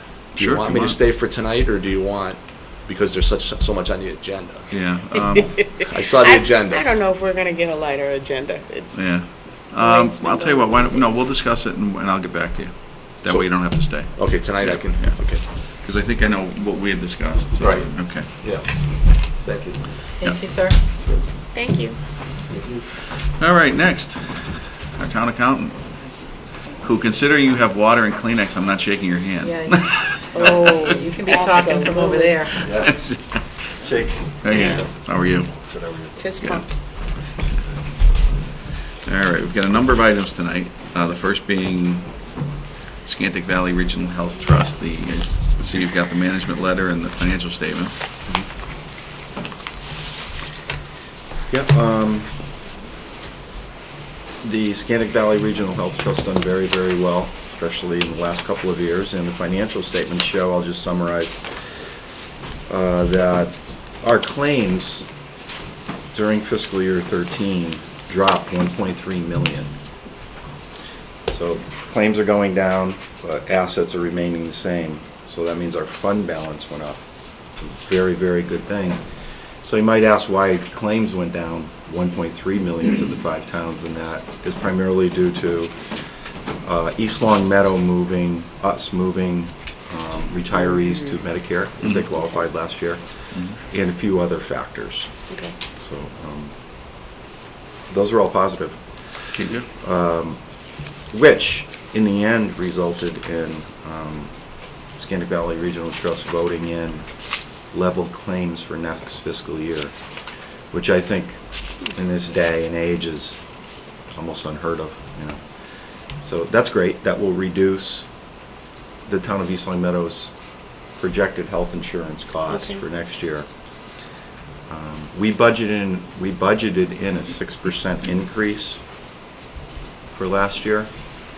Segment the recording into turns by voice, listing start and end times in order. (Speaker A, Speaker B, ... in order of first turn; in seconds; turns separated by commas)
Speaker A: 0.3-4.8, Speaker B: 0.4-1.0, Speaker B: 4.7-5.9, Speaker C: 5.8-11.3, Speaker A: 5.8-6.8, Speaker B: 8.9-18.5, Speaker A: 13.2-15.4, Speaker A: 17.6-19.9, Speaker D: 20.2-20.8, Speaker C: 21.5-22.0, Speaker B: 23.4-30.7, Speaker D: 29.4-29.8, Speaker C: 30.2-32.5, Speaker D: 30.9-32.7, Speaker E: 32.6-33.1, Speaker B: 32.8-33.2, Speaker E: 33.8-34.9, Speaker B: 34.4-35.6, Speaker C: 34.5-34.9, Speaker E: 35.6-36.2, Speaker C: 36.2-36.6, Speaker B: 39.0-42.5, Speaker B: 43.0-48.1, Speaker E: 51.5-52.3, Speaker E: 54.4-61.5, Speaker E: 62.7-65.1, Speaker E: 66.1-69.7, Speaker E: 71.3-79.0, Speaker E: 79.6-85.9, Speaker E: 86.6-95.1, Speaker C: 90.6-91.1, Speaker B: 91.8-92.1, Speaker C: 95.3-95.5, Speaker E: 95.8-96.5, Speaker E: 97.9-100.4, Speaker B: 99.3-99.7, Speaker E: 101.1-110.0, Speaker E: 110.7-113.4, Speaker E: 114.1-118.1, Speaker E: 119.1-120.3, Speaker E: 120.9-123.5, Speaker C: 122.5-122.8, Speaker E: 124.7-128.8, Speaker E: 130.1-131.2